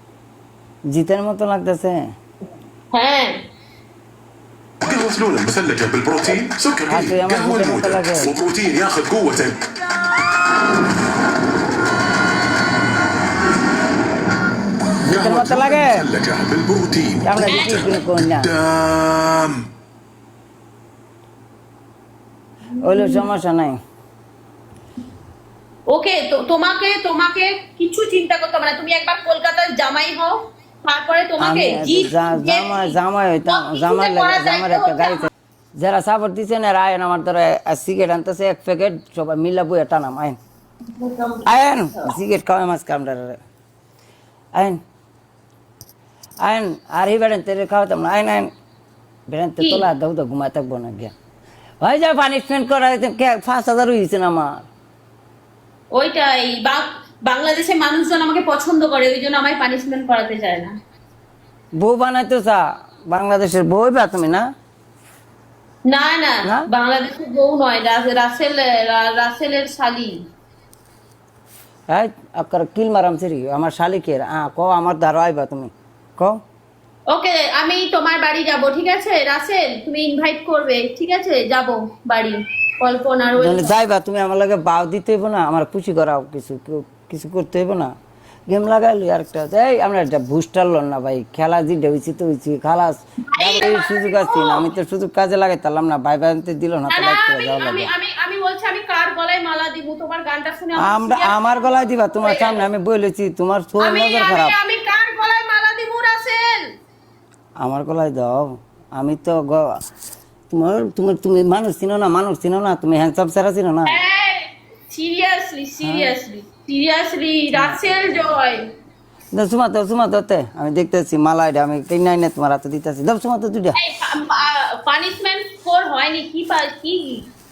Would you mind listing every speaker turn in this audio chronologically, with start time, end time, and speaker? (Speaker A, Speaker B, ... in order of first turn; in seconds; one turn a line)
Speaker A: 0.9-2.1
Speaker B: 2.9-3.4
Speaker C: 4.8-9.7
Speaker A: 6.9-8.4
Speaker A: 15.0-16.1
Speaker C: 15.1-17.7
Speaker A: 17.2-18.5
Speaker B: 17.5-17.9
Speaker C: 18.4-19.6
Speaker A: 22.8-23.8
Speaker B: 22.8-23.3
Speaker B: 25.9-35.3
Speaker A: 31.4-40.4
Speaker B: 40.9-42.1
Speaker A: 41.5-43.4
Speaker A: 44.5-44.8
Speaker A: 46.4-48.5
Speaker A: 49.3-51.1
Speaker B: 49.6-49.9
Speaker A: 51.8-54.7
Speaker B: 55.9-60.7
Speaker A: 61.8-64.5
Speaker B: 65.9-70.2
Speaker A: 66.4-66.7
Speaker A: 71.9-76.4
Speaker B: 77.1-83.7
Speaker A: 83.4-87.9
Speaker A: 88.5-97.9
Speaker B: 93.3-94.6
Speaker B: 96.9-102.7
Speaker A: 100.8-104.6
Speaker B: 103.8-106.7
Speaker A: 107.6-109.8
Speaker A: 110.5-114.0
Speaker B: 113.9-118.7
Speaker A: 115.8-116.1
Speaker A: 117.5-117.8
Speaker A: 119.3-123.8
Speaker B: 123.8-127.3